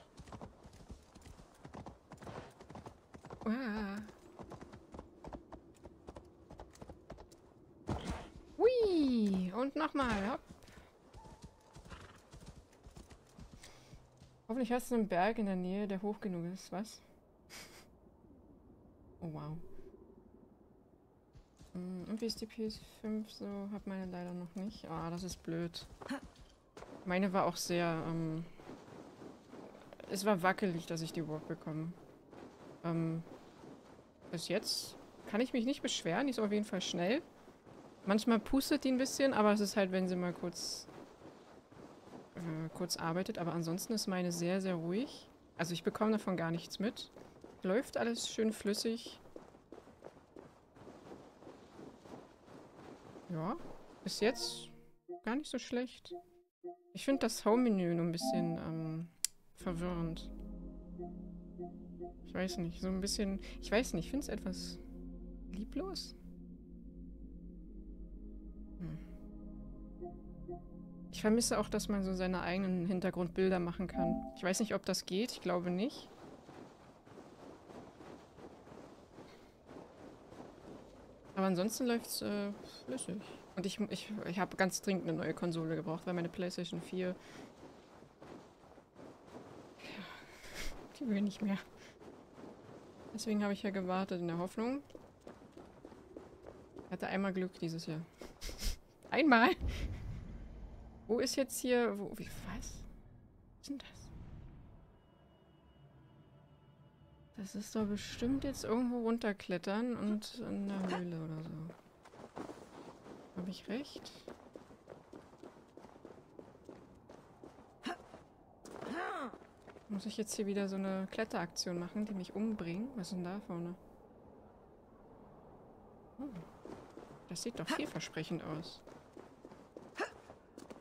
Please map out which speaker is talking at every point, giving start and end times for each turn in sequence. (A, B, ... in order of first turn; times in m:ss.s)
0:03.4-0:04.1 A
0:08.6-0:10.6 A
0:14.5-0:17.0 A
0:19.2-0:19.6 A
0:21.7-0:25.9 A
0:27.0-0:28.5 A
0:30.0-0:32.0 A
0:32.8-0:33.3 A
0:34.3-0:37.2 A
0:38.0-0:40.9 A
0:42.3-0:49.2 A
0:53.3-0:54.7 A
0:55.2-0:56.2 A
0:56.9-1:00.3 A
1:02.2-1:04.8 A
1:05.5-1:06.1 A
1:11.1-1:16.1 A
1:21.3-1:27.2 A
1:29.8-1:31.6 A
1:33.1-1:34.8 A
1:36.9-1:40.0 A
1:41.1-1:42.9 A
1:43.6-1:44.1 A
1:47.3-1:51.7 A
1:53.3-1:54.3 A
1:59.9-2:03.8 A
2:06.2-2:06.4 A
2:07.3-2:08.8 A